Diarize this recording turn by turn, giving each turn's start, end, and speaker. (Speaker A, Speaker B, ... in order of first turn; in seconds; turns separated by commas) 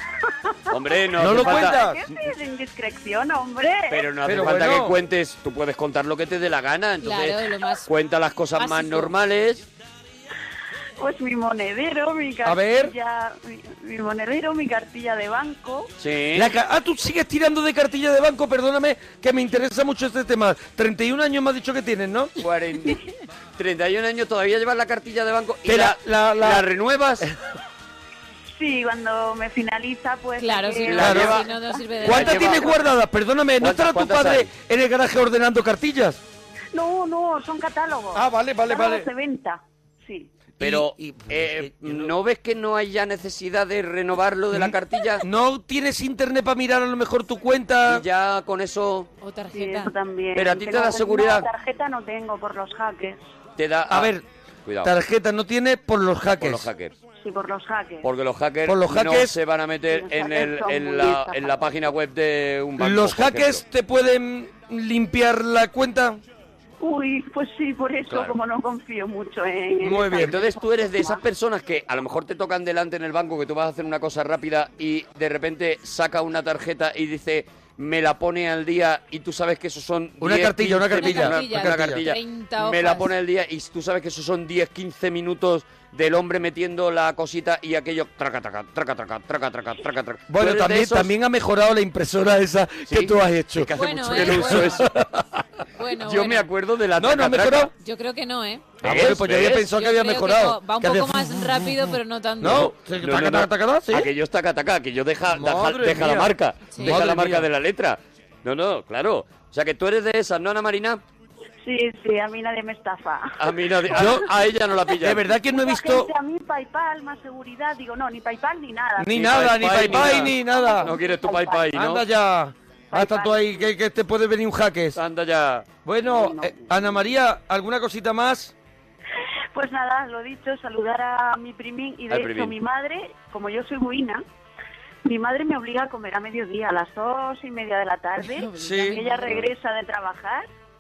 Speaker A: 0.7-1.9, Speaker B: 0.7-4.1, Speaker C: 1.2-2.0, Speaker A: 3.9-9.7, Speaker C: 4.2-5.0, Speaker D: 7.0-7.9, Speaker D: 8.6-9.1, Speaker B: 11.0-15.9, Speaker C: 12.4-12.9, Speaker A: 16.0-16.5, Speaker C: 16.4-22.3, Speaker A: 22.4-23.0, Speaker A: 23.6-27.3, Speaker C: 25.7-26.6, Speaker B: 28.6-31.8, Speaker D: 30.4-32.7, Speaker A: 30.9-31.5, Speaker C: 30.9-31.4, Speaker C: 32.0-36.2, Speaker A: 32.0-32.8, Speaker A: 33.6-34.5, Speaker B: 36.7-40.3, Speaker C: 38.1-39.1, Speaker C: 40.6-42.1, Speaker A: 40.6-45.2, Speaker C: 44.5-48.0, Speaker A: 47.9-49.1, Speaker D: 49.2-49.9, Speaker B: 49.5-53.2, Speaker A: 50.4-51.5, Speaker A: 53.6-54.1, Speaker C: 53.9-54.2, Speaker A: 54.7-54.9, Speaker C: 54.8-56.7, Speaker A: 56.4-57.0, Speaker B: 57.2-58.1, Speaker A: 58.0-63.6, Speaker C: 58.7-59.4, Speaker B: 59.9-61.7, Speaker C: 62.8-66.2, Speaker B: 66.8-71.2, Speaker A: 68.1-68.4, Speaker C: 69.8-70.3, Speaker A: 70.2-91.1, Speaker C: 80.2-82.0, Speaker D: 81.0-83.1, Speaker C: 90.3-95.2, Speaker A: 92.9-94.9, Speaker D: 93.7-94.8, Speaker D: 95.8-96.5, Speaker A: 96.0-97.7, Speaker C: 97.0-97.7, Speaker D: 97.8-98.8, Speaker A: 98.8-99.7, Speaker C: 98.8-104.1, Speaker D: 99.7-102.7, Speaker A: 102.4-111.0, Speaker C: 105.3-107.5, Speaker B: 111.6-113.7, Speaker A: 113.4-115.3, Speaker C: 113.9-114.3, Speaker C: 115.0-116.1, Speaker B: 115.5-119.2, Speaker C: 119.0-120.9, Speaker A: 119.2-122.0, Speaker B: 119.9-121.7, Speaker C: 121.7-125.0, Speaker B: 122.9-123.7, Speaker A: 125.0-125.7, Speaker C: 125.8-128.5, Speaker B: 126.0-127.0, Speaker B: 129.5-134.2, Speaker A: 132.1-132.6, Speaker B: 135.1-140.5, Speaker D: 138.4-139.3, Speaker C: 138.6-139.0